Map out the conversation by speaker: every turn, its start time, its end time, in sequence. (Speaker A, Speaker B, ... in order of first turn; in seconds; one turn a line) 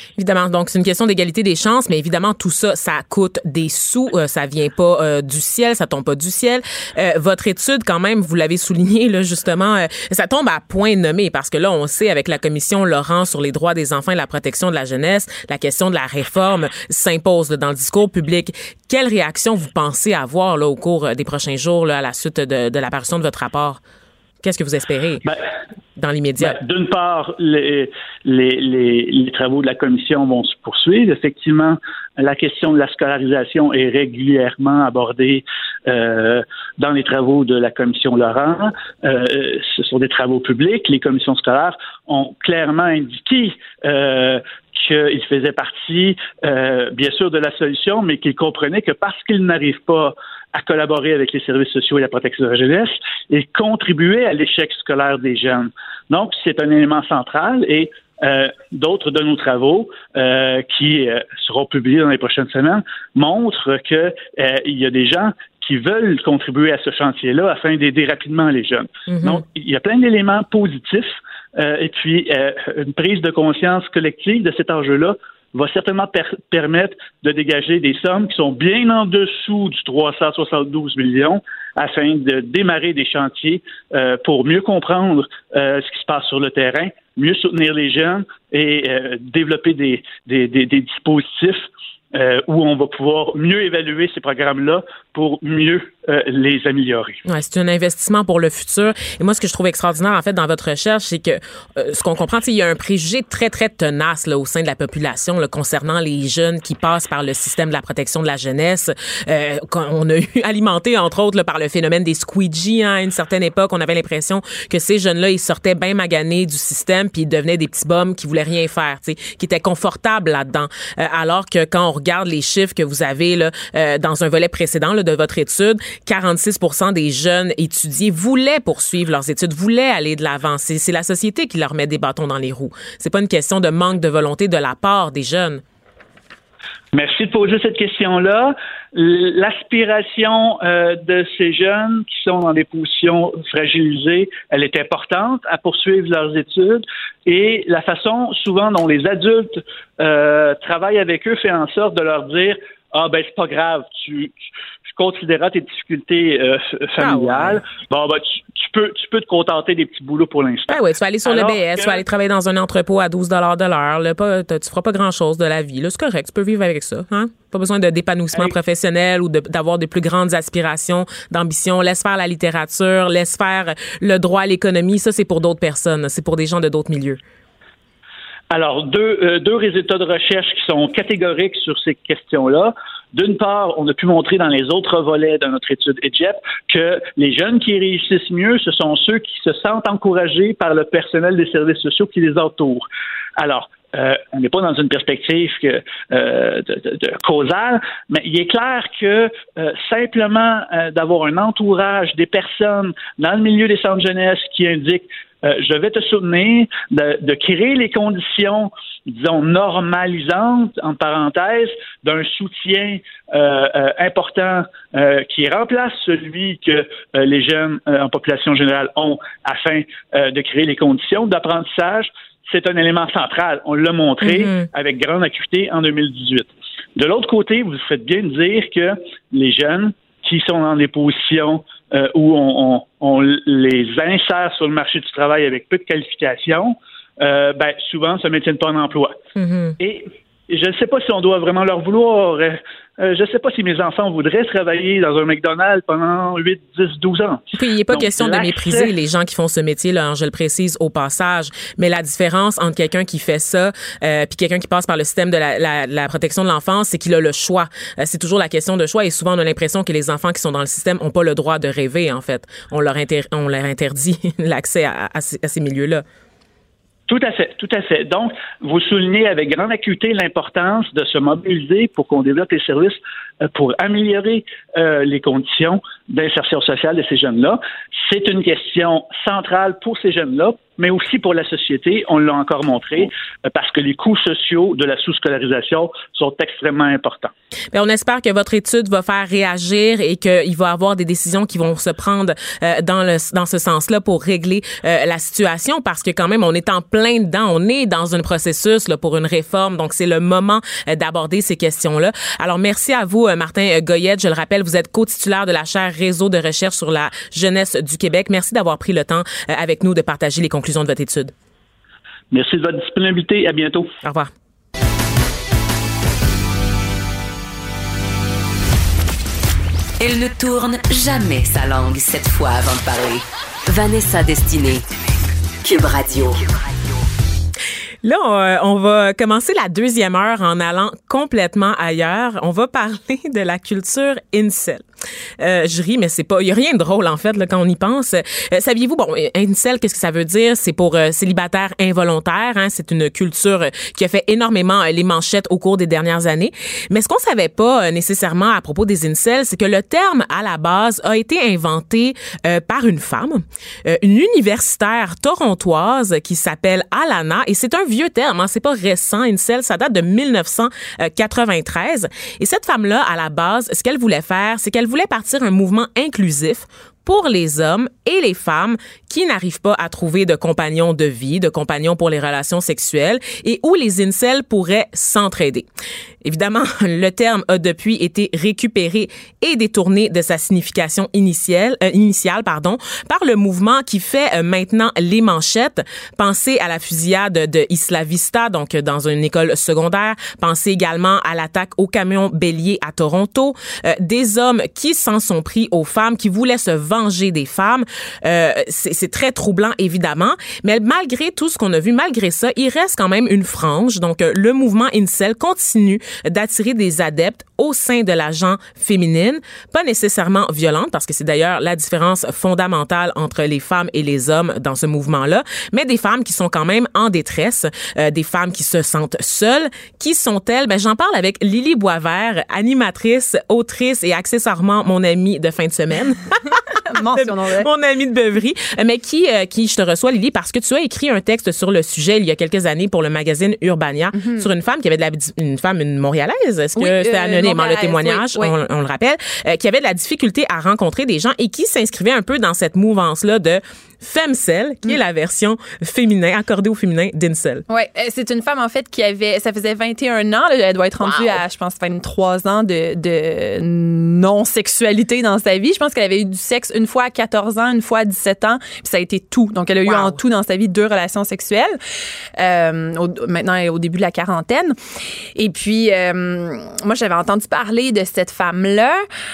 Speaker A: 0.2-23.8
Speaker A: 24.4-25.2
Speaker A: 25.9-26.6
Speaker B: 26.4-97.2
Speaker A: 69.1-69.4
Speaker A: 97.3-135.6
Speaker B: 136.9-154.4
Speaker B: 154.9-162.1
Speaker A: 157.0-157.6
Speaker A: 160.7-177.2
Speaker B: 178.5-192.9
Speaker B: 193.4-239.2
Speaker A: 224.2-224.7
Speaker A: 239.4-239.7
Speaker B: 239.8-248.9
Speaker A: 247.6-266.0
Speaker B: 267.1-287.3
Speaker A: 287.7-311.3
Speaker B: 312.3-313.9
Speaker A: 314.0-314.3
Speaker C: 320.0-324.8
Speaker C: 325.6-326.3
Speaker A: 328.0-334.8
Speaker A: 335.4-375.7
Speaker A: 376.2-426.3
Speaker D: 426.9-427.7
Speaker A: 427.2-447.6
Speaker D: 434.1-434.5
Speaker D: 436.8-438.5
Speaker D: 447.7-461.8
Speaker A: 451.0-451.4
Speaker A: 459.8-460.2
Speaker D: 462.4-464.8
Speaker D: 465.3-469.0